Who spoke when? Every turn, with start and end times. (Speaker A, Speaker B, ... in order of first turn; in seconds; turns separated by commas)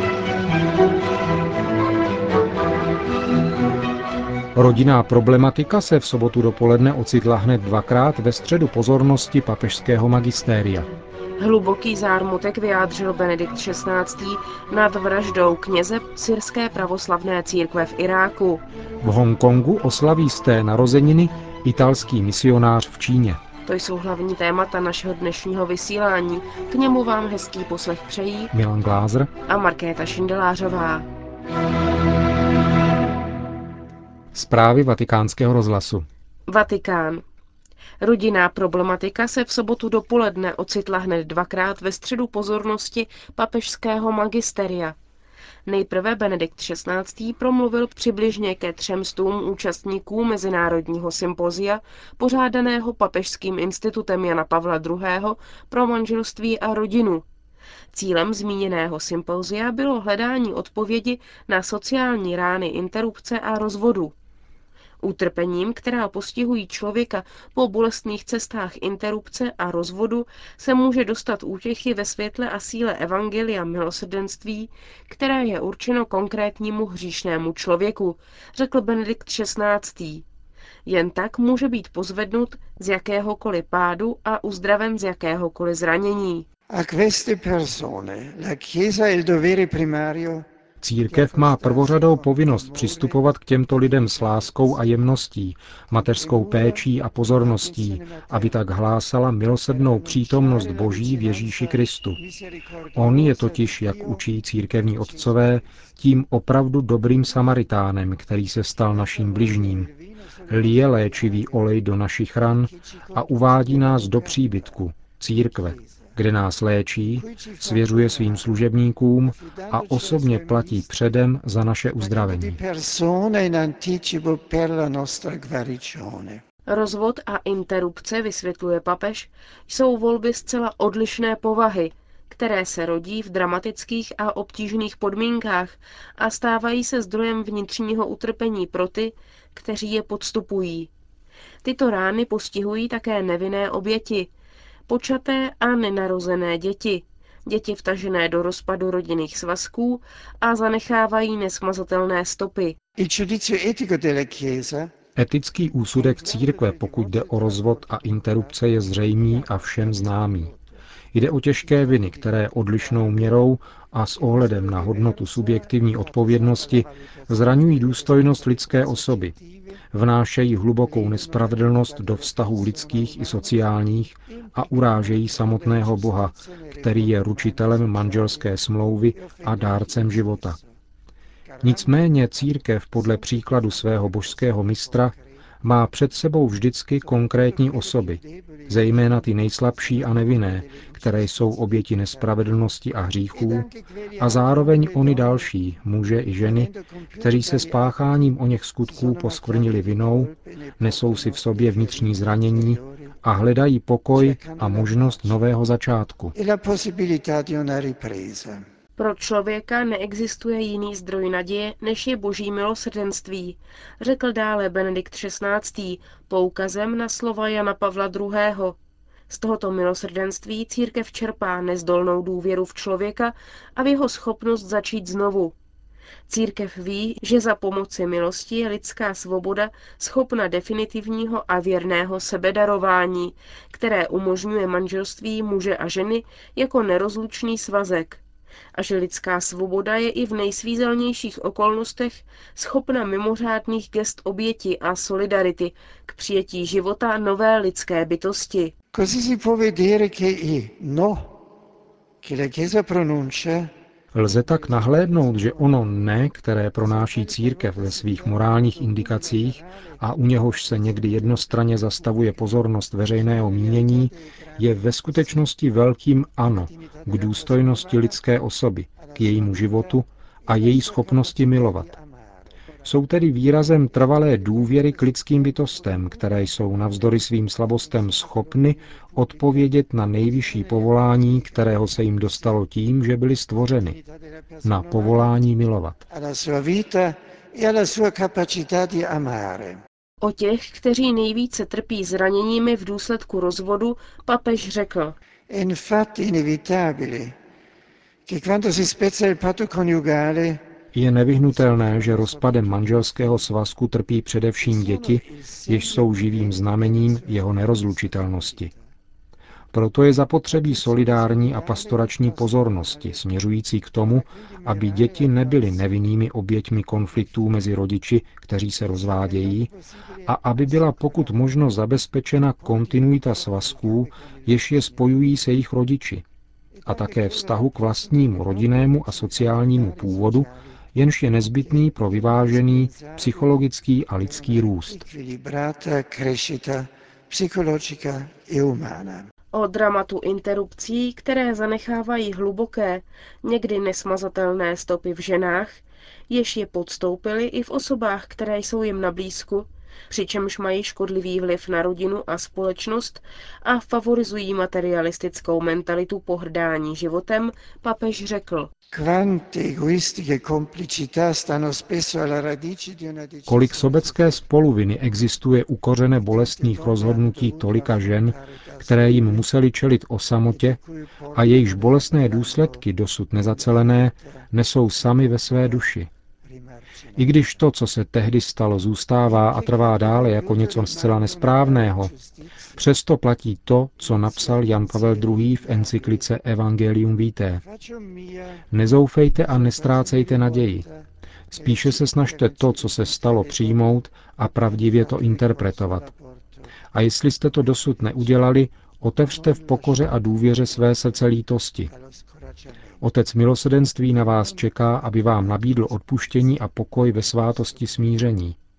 Speaker A: 4.6-10.9, Speaker B: 11.4-18.6, Speaker A: 19.0-23.4, Speaker B: 23.7-28.5, Speaker A: 28.5-29.3, Speaker B: 29.5-31.1, Speaker A: 34.3-36.1, Speaker B: 36.5-37.2, Speaker B: 38.0-45.0, Speaker B: 45.7-57.2, Speaker B: 57.9-64.1, Speaker B: 65.0-80.2, Speaker B: 80.9-86.5, Speaker C: 86.7-90.5, Speaker A: 90.8-102.2, Speaker C: 91.1-95.0, Speaker C: 95.9-98.6, Speaker C: 99.7-105.7, Speaker A: 103.0-109.9, Speaker C: 108.9-111.8, Speaker A: 110.5-122.6, Speaker C: 112.5-114.8, Speaker C: 115.4-116.0, Speaker C: 117.1-118.7, Speaker C: 119.3-121.0, Speaker C: 122.0-126.4, Speaker B: 126.7-140.9, Speaker B: 141.6-144.3, Speaker B: 144.9-152.8, Speaker C: 153.0-154.9, Speaker A: 155.2-160.5, Speaker C: 155.9-160.6, Speaker A: 161.1-169.3, Speaker C: 161.6-163.5, Speaker C: 164.2-169.8, Speaker A: 169.9-180.6, Speaker C: 170.8-180.8, Speaker C: 181.5-185.4, Speaker A: 181.6-206.3, Speaker C: 187.0-192.6, Speaker C: 193.3-195.5, Speaker C: 196.4-198.0, Speaker C: 198.8-203.2, Speaker C: 204.1-205.4, Speaker C: 206.3-208.6, Speaker B: 209.0-218.8, Speaker B: 219.3-225.6, Speaker B: 226.3-238.2, Speaker B: 238.7-248.7, Speaker C: 248.9-251.4, Speaker C: 252.2-253.7, Speaker A: 254.1-271.9, Speaker C: 254.3-265.6, Speaker C: 266.4-268.2, Speaker C: 269.0-273.0, Speaker A: 272.9-284.0, Speaker C: 273.5-282.6, Speaker C: 283.8-285.4, Speaker A: 284.6-286.0, Speaker C: 286.1-289.8, Speaker B: 290.2-295.2, Speaker C: 295.5-297.4, Speaker C: 298.3-300.6, Speaker A: 300.9-308.7, Speaker C: 301.5-303.5, Speaker C: 304.6-308.8, Speaker A: 309.7-319.7, Speaker C: 310.4-313.2, Speaker C: 314.0-316.1, Speaker C: 318.9-321.7, Speaker A: 320.3-326.2, Speaker C: 322.6-325.4, Speaker C: 326.8-330.8, Speaker A: 326.9-335.1, Speaker C: 331.6-339.3, Speaker B: 339.5-358.7, Speaker C: 358.9-364.4, Speaker A: 363.5-370.8, Speaker C: 366.2-369.4, Speaker C: 370.5-374.5, Speaker A: 371.3-376.1, Speaker C: 375.1-375.9, Speaker C: 376.4-377.4, Speaker A: 377.2-382.1, Speaker C: 379.2-382.9, Speaker A: 382.8-387.6, Speaker C: 384.0-386.3, Speaker C: 387.6-388.7, Speaker A: 388.7-390.9, Speaker C: 389.4-394.1, Speaker A: 391.5-396.1, Speaker C: 394.7-396.7, Speaker A: 396.9-401.9, Speaker C: 399.2-400.8, Speaker C: 401.9-403.0, Speaker A: 403.0-408.6, Speaker C: 404.1-408.2